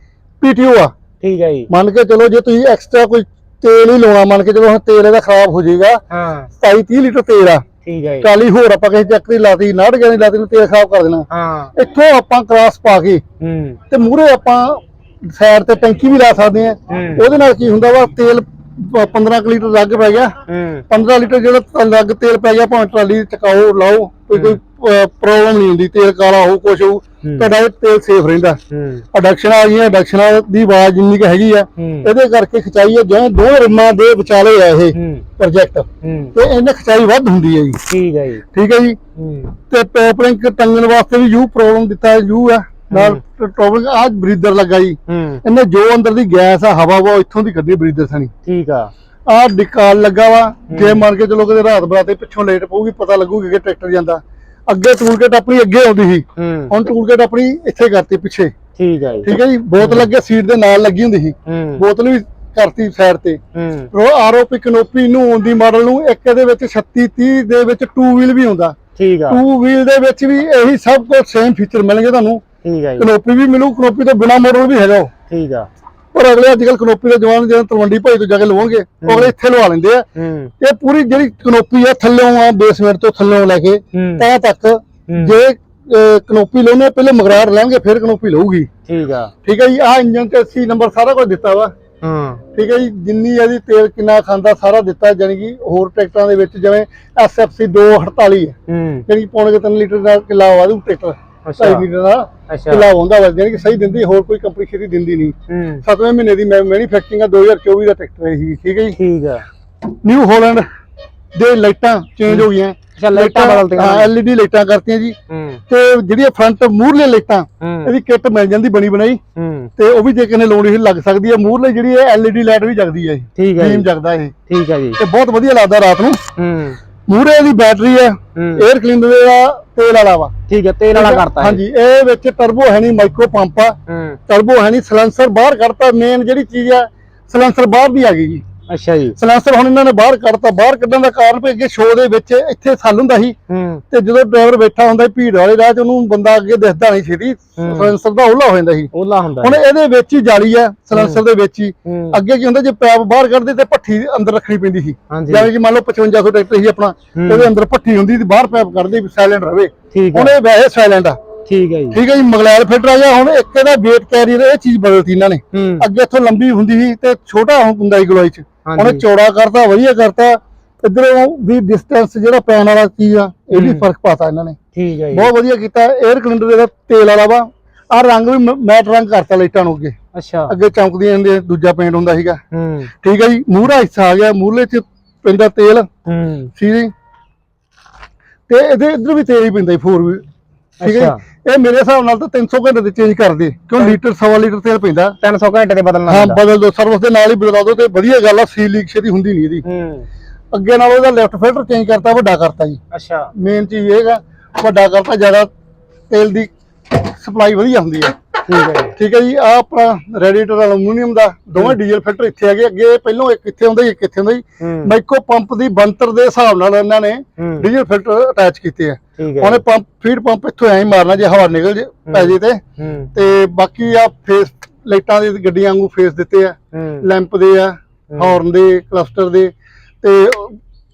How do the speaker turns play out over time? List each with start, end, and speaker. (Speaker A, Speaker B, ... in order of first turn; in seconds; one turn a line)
Speaker A: 0.4-0.9
Speaker B: 1.2-1.7
Speaker A: 1.7-6.0
Speaker B: 6.1-6.5
Speaker A: 6.6-7.6
Speaker B: 7.8-8.3
Speaker A: 8.2-13.2
Speaker B: 11.3-11.7
Speaker B: 13.4-13.8
Speaker A: 13.9-20.4
Speaker B: 16.9-17.2
Speaker B: 20.5-20.8
Speaker A: 20.9-28.6
Speaker B: 24.3-24.6
Speaker B: 27.2-27.5
Speaker B: 28.7-29.0
Speaker A: 29.1-37.8
Speaker B: 31.8-32.1
Speaker B: 34.9-35.3
Speaker B: 36.0-36.3
Speaker B: 37.9-38.4
Speaker A: 38.5-39.0
Speaker B: 39.1-39.5
Speaker A: 39.6-48.3
Speaker B: 42.9-43.2
Speaker B: 45.1-45.4
Speaker B: 48.4-48.9
Speaker A: 49.3-58.5
Speaker B: 50.7-51.0
Speaker B: 56.4-56.7
Speaker B: 58.8-60.1
Speaker A: 59.2-63.4
Speaker B: 61.5-61.8
Speaker B: 63.5-63.9
Speaker A: 63.9-68.8
Speaker B: 69.0-69.4
Speaker A: 69.3-72.4
Speaker B: 72.6-73.1
Speaker A: 73.0-75.1
Speaker B: 75.3-75.7
Speaker A: 76.1-80.1
Speaker B: 79.0-79.3
Speaker B: 80.2-80.5
Speaker A: 80.6-88.7
Speaker B: 83.9-84.3
Speaker B: 85.1-85.3
Speaker B: 88.9-89.3
Speaker A: 89.4-91.7
Speaker B: 92.0-92.4
Speaker A: 92.5-98.5
Speaker B: 98.7-99.0
Speaker A: 99.1-109.0
Speaker B: 101.5-101.8
Speaker B: 102.5-102.9
Speaker B: 105.5-105.8
Speaker B: 109.0-109.5
Speaker A: 110.0-110.6
Speaker A: 111.3-115.2
Speaker B: 112.3-114.1
Speaker B: 115.3-115.6
Speaker A: 115.7-119.2
Speaker B: 117.6-117.9
Speaker B: 119.3-119.7
Speaker A: 119.8-124.3
Speaker B: 123.3-123.9
Speaker B: 124.5-125.0
Speaker A: 125.0-126.2
Speaker B: 126.4-126.8
Speaker A: 127.1-130.3
Speaker B: 128.3-128.7
Speaker B: 130.5-131.6
Speaker A: 130.9-133.8
Speaker B: 133.9-134.2
Speaker A: 134.3-138.4
Speaker B: 138.7-139.2
Speaker A: 139.2-143.3
Speaker B: 143.5-143.8
Speaker A: 143.9-148.9
Speaker B: 147.6-147.9
Speaker B: 148.9-149.6
Speaker A: 149.4-161.2
Speaker B: 150.9-151.2
Speaker B: 151.8-152.2
Speaker B: 155.1-155.5
Speaker B: 157.2-157.5
Speaker B: 159.9-160.3
Speaker B: 161.5-162.0
Speaker A: 161.9-174.6
Speaker B: 165.5-165.8
Speaker B: 168.7-169.0
Speaker B: 173.5-173.9
Speaker B: 174.7-175.3
Speaker A: 175.1-179.9
Speaker B: 180.1-180.5
Speaker A: 180.5-182.4
Speaker B: 182.5-182.9
Speaker A: 183.0-185.9
Speaker B: 186.1-186.5
Speaker A: 186.5-186.9
Speaker A: 188.5-190.2
Speaker B: 190.8-191.2
Speaker A: 190.8-195.2
Speaker B: 195.2-196.4
Speaker A: 196.1-199.6
Speaker B: 199.6-200.1
Speaker A: 200.5-202.8
Speaker B: 202.9-203.3
Speaker A: 203.3-205.5
Speaker A: 206.1-208.1
Speaker B: 208.4-208.9
Speaker A: 208.9-222.6
Speaker B: 214.6-214.9
Speaker B: 217.4-217.7
Speaker B: 219.2-219.6
Speaker B: 222.1-223.1
Speaker A: 223.1-230.6
Speaker B: 226.7-227.1
Speaker B: 228.1-228.4